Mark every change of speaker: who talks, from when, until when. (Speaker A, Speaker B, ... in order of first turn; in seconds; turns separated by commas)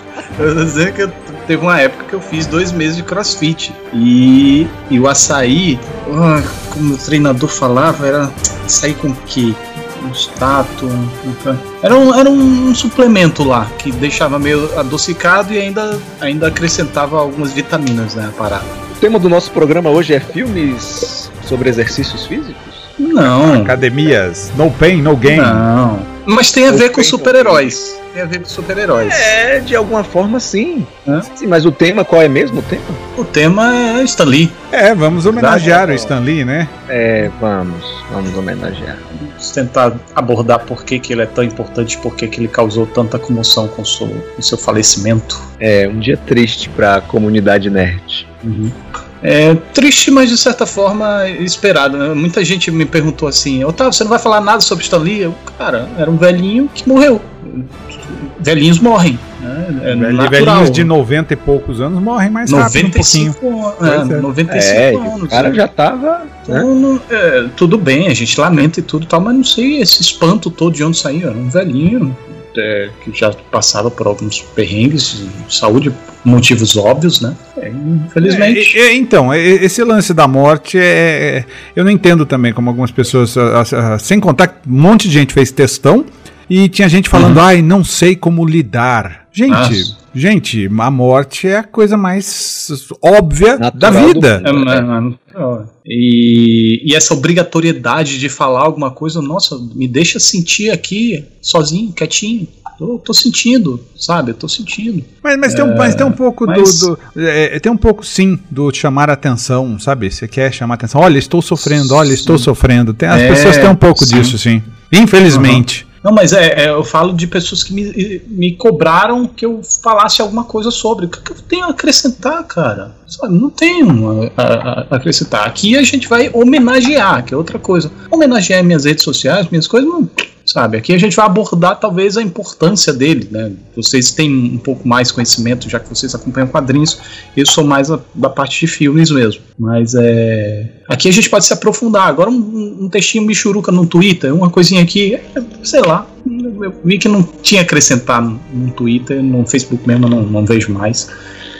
Speaker A: 0.3-18.7, Speaker B: 18.9-22.9, Speaker A: 23.0-23.8, Speaker C: 23.3-25.6, Speaker A: 25.3-29.3, Speaker B: 26.7-27.8, Speaker B: 29.0-33.0, Speaker A: 33.2-34.6, Speaker C: 34.7-36.7, Speaker A: 35.2-35.8, Speaker B: 35.6-36.1, Speaker B: 36.9-39.0, Speaker A: 39.1-45.5, Speaker B: 45.6-48.3, Speaker A: 48.4-60.9, Speaker C: 59.9-64.3, Speaker A: 62.5-65.6, Speaker B: 64.5-66.7, Speaker A: 66.5-78.8, Speaker C: 78.2-94.4, Speaker A: 87.1-87.4, Speaker A: 89.5-89.9, Speaker B: 93.6-94.8, Speaker A: 94.4-106.9, Speaker C: 105.2-115.8, Speaker A: 111.6-112.5, Speaker A: 113.1-114.4, Speaker A: 115.3-151.1